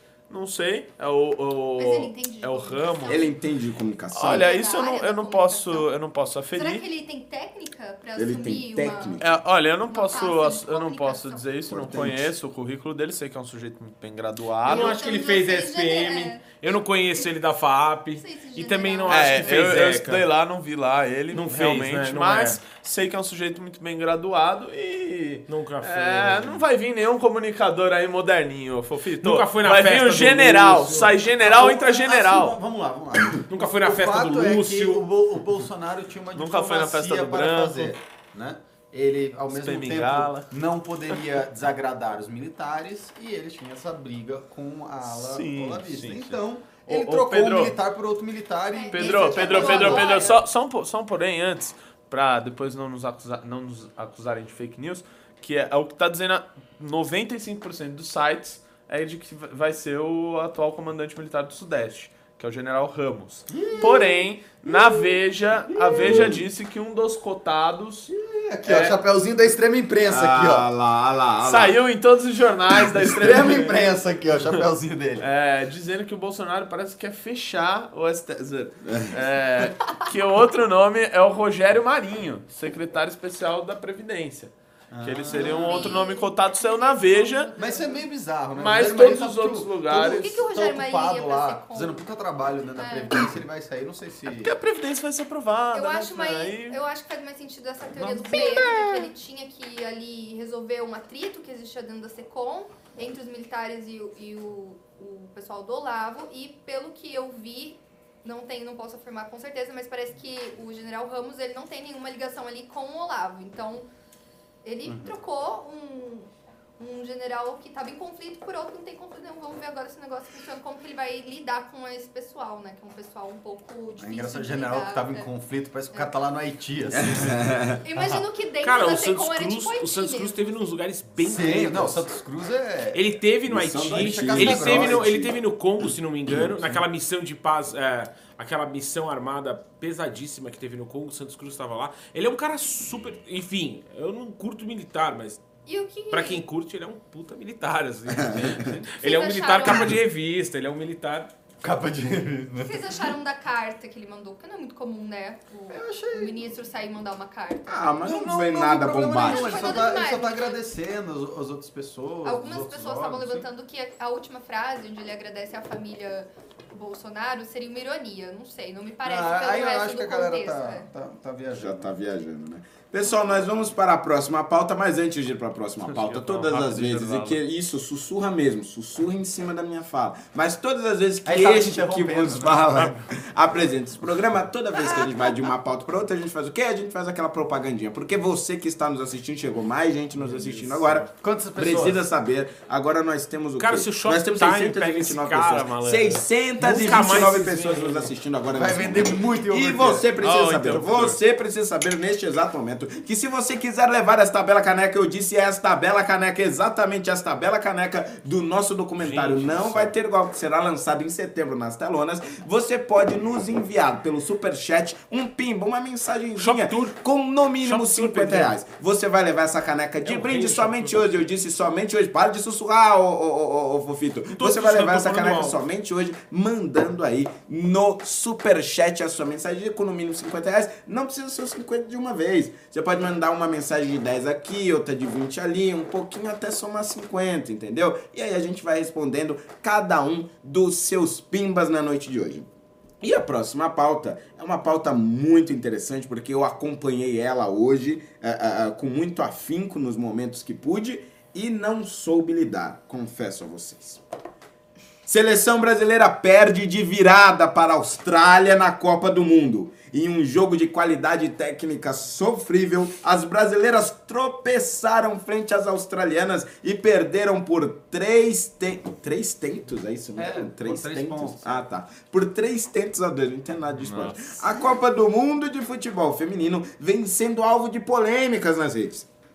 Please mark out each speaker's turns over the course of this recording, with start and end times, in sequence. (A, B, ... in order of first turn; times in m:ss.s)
0:00.3-0:03.3 A
0:01.8-0:03.4 B
0:03.1-0:04.5 C
0:04.1-0:06.8 A
0:04.2-0:05.9 B
0:06.5-0:09.2 B
0:08.2-0:09.3 C
0:09.2-0:15.0 A
0:09.9-0:11.8 B
0:11.7-0:12.3 C
0:14.6-0:20.3 D
0:14.6-0:17.3 B
0:18.2-0:19.8 B
0:19.1-0:32.6 A
0:21.3-0:22.6 D
0:25.5-0:26.6 D
0:29.2-0:31.1 D
0:30.9-0:50.2 E
0:33.5-0:35.0 D
0:36.3-0:37.9 A
0:39.5-0:40.5 A
0:45.1-0:47.8 A
0:48.7-0:50.4 B
0:48.9-1:08.1 A
1:03.5-1:05.1 E
1:05.8-1:06.2 E
1:06.0-1:06.4 C
1:08.1-1:10.7 E
1:10.0-1:11.8 C
1:11.4-1:14.5 A
1:13.0-1:15.2 E
1:15.2-1:27.5 A
1:18.8-1:19.1 C
1:24.9-1:26.0 E
1:25.3-1:28.0 B
1:27.6-1:34.5 E
1:28.6-1:30.3 A
1:29.9-1:32.0 B
1:32.8-1:33.2 B
1:34.4-1:36.8 A
1:35.7-1:53.9 B
1:38.0-1:39.1 A
1:54.6-2:05.3 B
1:54.8-1:55.1 E
2:04.0-2:07.4 E
2:06.9-2:07.8 C
2:07.8-2:10.6 B
2:08.6-2:12.0 D
2:11.2-2:13.0 E
2:12.9-2:25.4 D
2:13.5-2:15.4 C
2:13.9-2:15.2 E
2:16.3-2:16.8 C
2:25.7-2:26.4 B
2:26.1-2:31.3 D
2:28.1-2:28.5 C
2:29.0-2:30.0 B
2:31.6-2:33.1 E
2:32.6-2:37.8 B
2:35.7-2:36.5 E
2:37.7-2:39.8 C
2:38.0-2:43.5 E
2:38.6-2:40.6 B
2:42.2-2:50.9 B
2:49.0-2:51.9 E
2:51.5-4:02.5 C
2:55.9-2:57.4 A
3:01.2-3:03.0 E
3:10.2-3:11.1 D
3:11.2-3:12.0 E
3:13.6-3:18.1 D
3:18.5-3:20.1 E
3:20.2-3:21.2 A
3:29.0-3:29.9 D
3:36.4-3:37.0 D
3:37.6-3:38.6 D
3:40.0-3:41.2 D
3:44.3-3:45.6 D
4:03.0-4:14.0 C
4:15.1-4:39.1 C
4:30.2-4:31.7 E
4:33.8-4:34.4 A